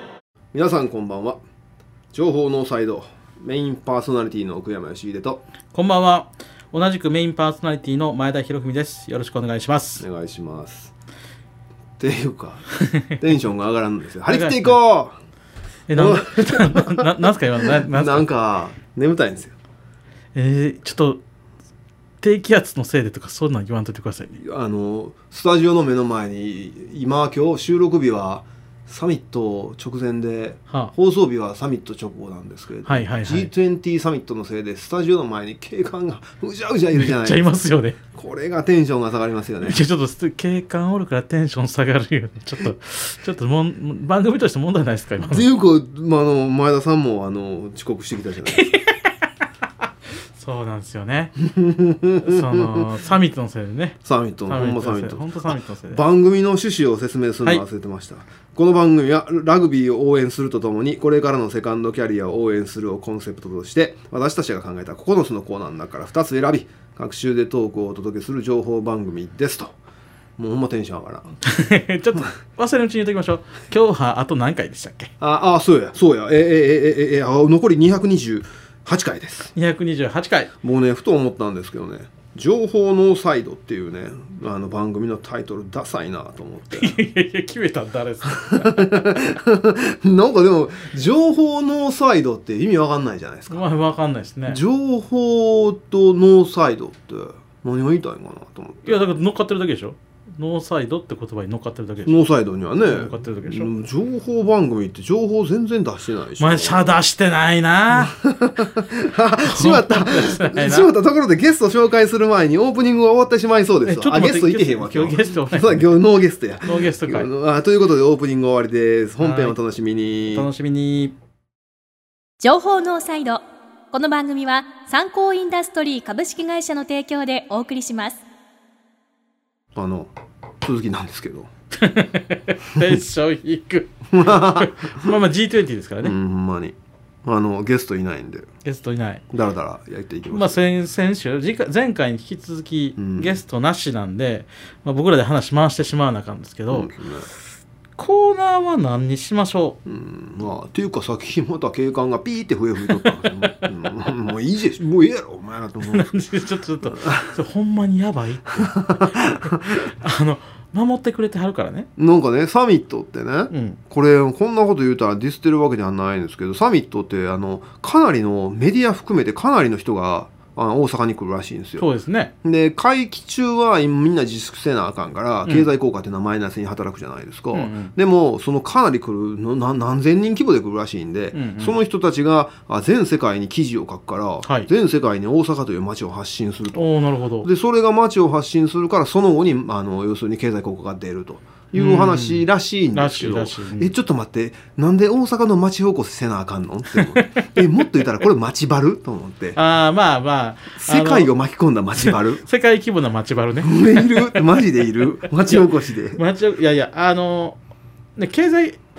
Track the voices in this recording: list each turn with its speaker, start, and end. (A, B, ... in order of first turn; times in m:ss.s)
0:00.5-0:01.4 A
0:02.1-0:05.4 A
0:05.7-0:10.0 B
0:10.0-0:10.9 A
0:12.0-0:15.2 A
0:14.3-0:14.8 B
0:15.9-0:18.2 B
0:16.0-0:17.1 A
0:17.6-0:19.5 A
0:20.3-0:21.2 B
0:22.2-0:24.4 B
0:24.4-0:37.5 A
0:32.8-0:33.5 B
0:36.9-0:38.0 B
0:38.1-0:39.8 A
0:39.6-0:45.5 B
0:45.3-0:48.7 A
0:48.4-0:49.3 B
0:50.4-0:51.3 B
0:51.4-0:52.8 A
0:52.2-0:56.0 B
0:54.0-1:09.8 A
1:10.4-1:11.4 A
1:11.4-1:15.1 B
1:15.2-1:19.5 A
1:19.5-1:20.5 B
1:20.6-1:27.0 A
1:26.7-1:29.2 B
1:28.3-1:33.6 A
1:33.5-1:34.6 B
1:34.5-1:39.1 A
1:38.8-1:42.2 B
1:42.0-1:47.0 A
1:42.8-1:43.7 B
1:46.4-1:48.1 B
1:47.9-2:00.5 A
1:49.5-1:50.9 B
1:53.8-1:55.9 B
1:56.6-1:57.3 B
1:59.2-1:59.6 B
2:00.3-2:01.2 B
2:02.4-2:08.2 C
2:09.8-2:10.1 A
2:10.6-2:11.5 A
2:11.8-2:16.2 B
2:14.1-2:15.1 A
2:16.0-2:18.5 A
2:18.6-2:19.2 B
2:19.3-2:20.6 A
2:20.3-2:26.9 B
2:23.0-2:23.4 A
2:26.7-2:27.3 A
2:28.0-2:29.8 B
2:29.9-2:36.1 A
2:32.9-2:33.5 B
2:35.9-2:39.0 B
2:36.9-2:37.3 A
2:38.7-2:39.8 A
2:39.7-2:41.9 B
2:42.0-2:51.9 A
2:43.5-2:43.8 B
2:51.8-2:52.3 B
2:52.4-3:06.9 A
2:57.5-2:57.9 B
3:01.3-3:01.8 B
3:04.4-3:04.7 B
3:06.7-3:07.5 B
3:07.4-3:19.6 A
3:11.7-3:13.9 B
3:16.9-3:17.6 B
3:19.6-3:21.3 B
3:20.7-3:22.4 A
3:22.0-3:27.6 B
3:23.6-3:26.2 A
3:28.2-3:28.8 B